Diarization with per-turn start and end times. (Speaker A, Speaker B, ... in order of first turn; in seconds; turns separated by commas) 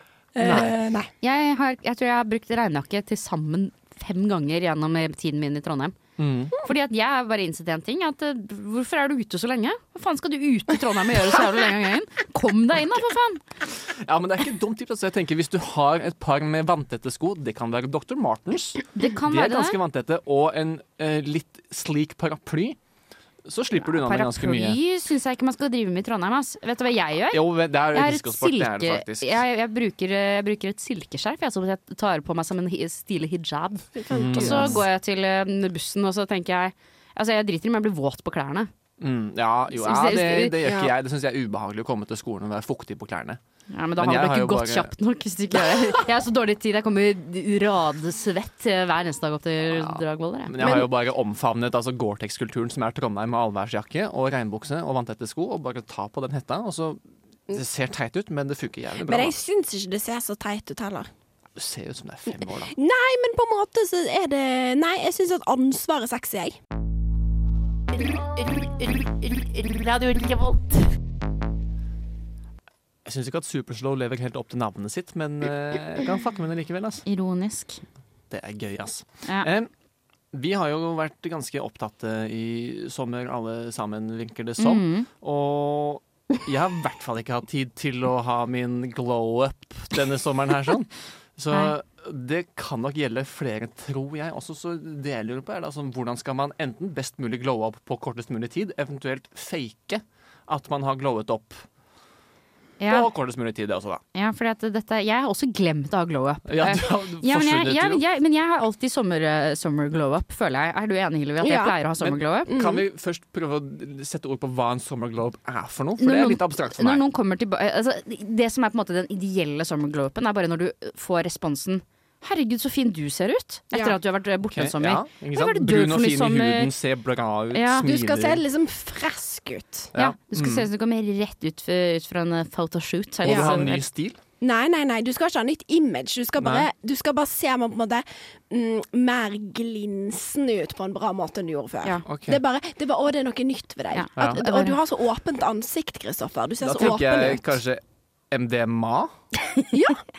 Speaker A: 0.4-1.1, Speaker B: 0.4-0.7, Speaker C: 1.2-6.0, Speaker B: 6.2-6.6, Speaker C: 6.6-13.4, Speaker B: 13.8-22.8, Speaker C: 18.9-19.8, Speaker B: 23.4-24.8, Speaker C: 23.8-38.7, Speaker B: 27.3-29.4, Speaker A: 34.0-34.8, Speaker B: 34.1-34.8, Speaker B: 39.0-43.4, Speaker C: 39.8-40.6, Speaker A: 40.6-40.9, Speaker C: 43.7-50.9, Speaker B: 44.0-44.9, Speaker B: 49.7-59.4, Speaker A: 59.1-61.1, Speaker B: 61.6-62.8, Speaker A: 62.8-66.6, Speaker C: 68.6-70.9, Speaker B: 73.0-77.0, Speaker C: 77.1-77.8, Speaker B: 78.3-79.7, Speaker B: 80.3-101.7, Speaker C: 84.6-85.1, Speaker C: 102.8-103.1, Speaker B: 102.9-104.0, Speaker C: 104.1-112.5, Speaker B: 106.5-108.0, Speaker A: 111.4-111.8, Speaker B: 112.0-117.0, Speaker A: 112.5-112.8, Speaker C: 116.0-126.7, Speaker A: 123.7-124.0, Speaker B: 124.5-128.4, Speaker C: 127.5-127.8, Speaker A: 127.8-129.9, Speaker B: 129.9-130.7, Speaker C: 129.9-133.9, Speaker B: 133.2-134.2, Speaker A: 133.2-133.6, Speaker A: 134.4-147.6, Speaker B: 136.4-136.7, Speaker B: 142.1-142.4, Speaker C: 143.9-144.8, Speaker B: 144.2-144.4, Speaker B: 146.6-149.2, Speaker A: 149.7-150.0